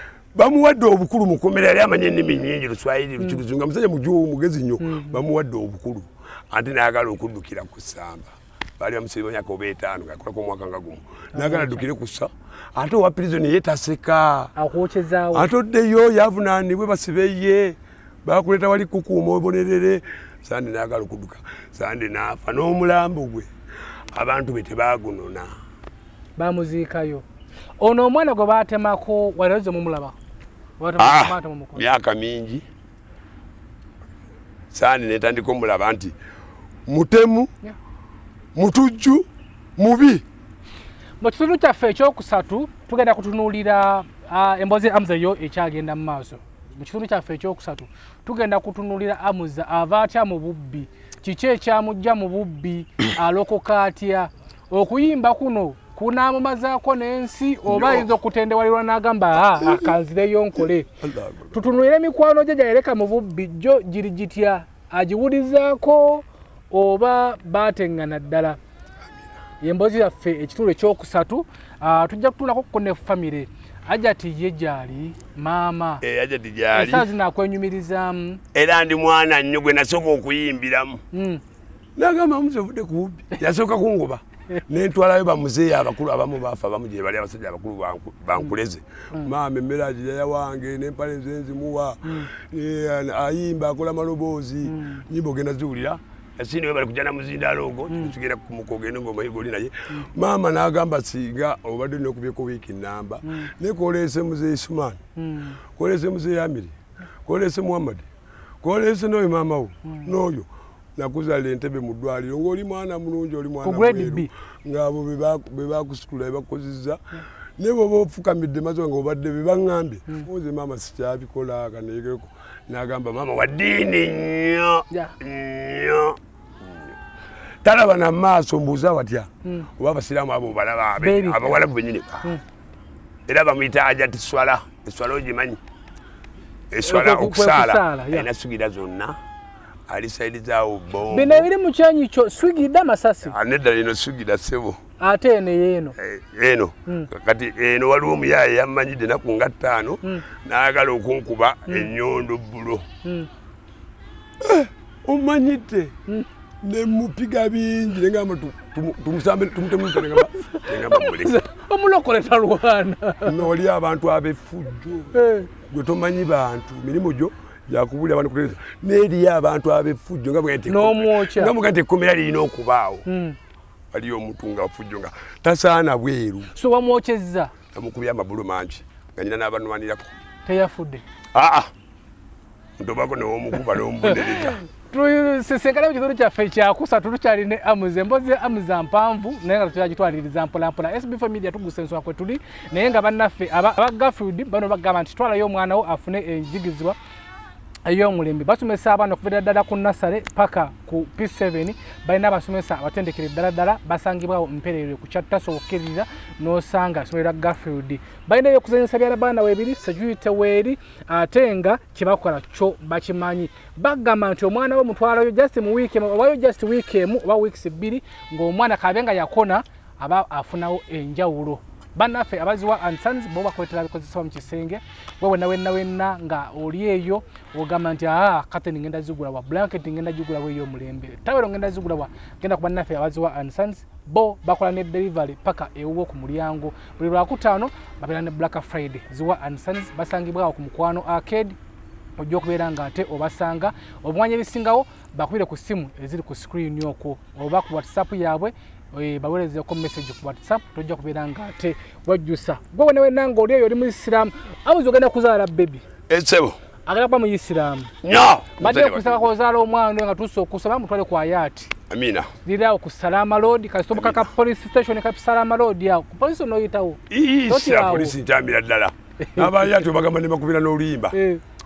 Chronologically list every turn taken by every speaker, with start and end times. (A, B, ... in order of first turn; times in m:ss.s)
0:00.3-0:14.5 A
0:04.8-0:05.2 B
0:11.3-0:11.8 B
0:14.6-0:15.5 B
0:15.3-0:23.5 A
0:24.1-0:25.5 A
0:26.4-0:27.2 B
0:27.8-0:30.2 B
0:30.8-0:31.8 B
0:31.0-0:32.6 A
0:34.7-0:36.1 A
0:36.9-0:37.5 A
0:38.5-0:39.2 A
0:39.8-0:40.2 A
0:41.2-1:00.9 B
0:57.6-0:58.1 A
0:59.6-0:59.9 A
1:00.6-1:01.6 A
1:01.5-1:08.6 B
1:09.6-1:16.0 B
1:16.0-1:17.1 A
1:16.7-1:18.4 B
1:18.5-1:21.0 A
1:21.1-1:21.4 B
1:22.0-1:45.0 A
1:34.6-1:35.0 B
1:45.2-1:45.6 B
1:45.7-1:46.7 A
1:47.2-1:48.1 A
1:48.6-1:57.0 A
1:53.6-1:54.3 B
1:57.6-2:06.8 A
2:07.6-2:12.4 A
2:11.0-2:11.6 B
2:13.3-2:15.6 A
2:16.7-2:19.2 A
2:16.8-2:18.3 B
2:19.9-2:21.5 A
2:21.1-2:23.4 B
2:23.2-2:24.8 A
2:25.0-2:25.9 B
2:26.0-2:32.9 A
2:31.7-2:31.9 B
2:33.0-2:33.3 B
2:34.4-2:35.9 A
2:36.6-2:41.4 A
2:39.9-2:43.4 B
2:43.2-2:53.0 A
2:45.1-2:45.5 B
2:50.7-2:51.5 B
2:53.0-2:53.4 B
2:53.9-2:56.5 A
2:56.5-2:57.5 B
2:57.7-3:00.1 A
3:00.4-3:01.0 B
3:01.3-3:01.7 A
3:02.8-3:04.6 A
3:04.0-3:17.0 B
3:17.8-4:01.6 B
4:02.2-4:15.8 B
4:16.1-4:16.6 A
4:16.9-4:17.9 B
4:18.0-4:19.3 A
4:18.6-4:21.7 B
4:21.9-4:22.3 A
4:22.4-4:28.2 B
4:23.9-4:24.3 A
4:27.1-4:31.2 A
4:29.2-4:29.6 B
4:31.1-4:31.4 B